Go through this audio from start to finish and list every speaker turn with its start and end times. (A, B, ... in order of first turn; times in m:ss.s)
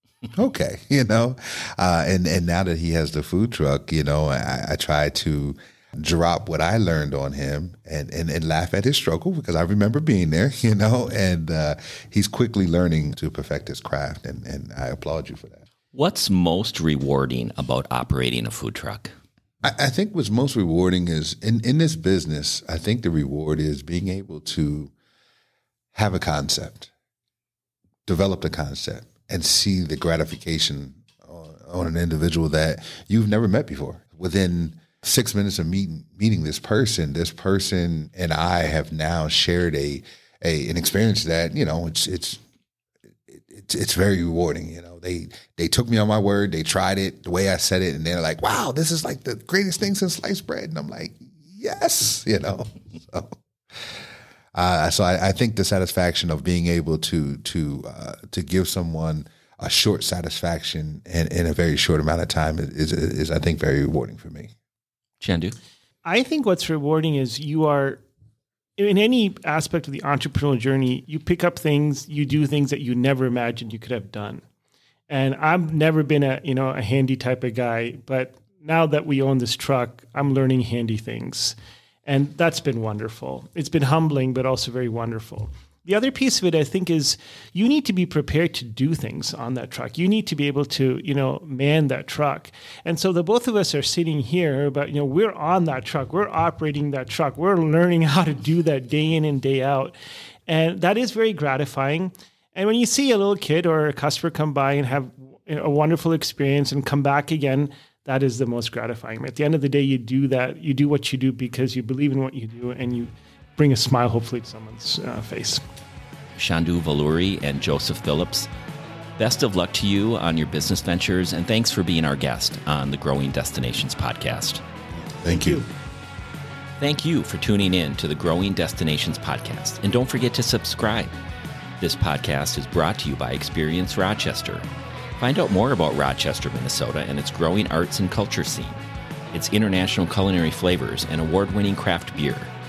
0:00.3-0:15.6 A
0:15.9-0:19.1 B
0:19.6-0:24.9 A
0:25.9-0:26.9 A
0:28.1-0:42.4 A
0:43.3-0:53.3 A
0:54.6-1:04.5 A
1:05.2-1:05.6 B
1:06.0-1:08.0 C
1:08.8-1:14.4 C
1:15.1-1:40.0 C
1:40.5-1:55.6 C
1:56.4-1:58.5 B
1:59.2-2:04.6 B
2:05.0-2:05.6 A
2:05.3-2:05.7 C
2:06.8-2:11.1 B
2:11.8-2:14.7 B
2:15.2-2:22.5 B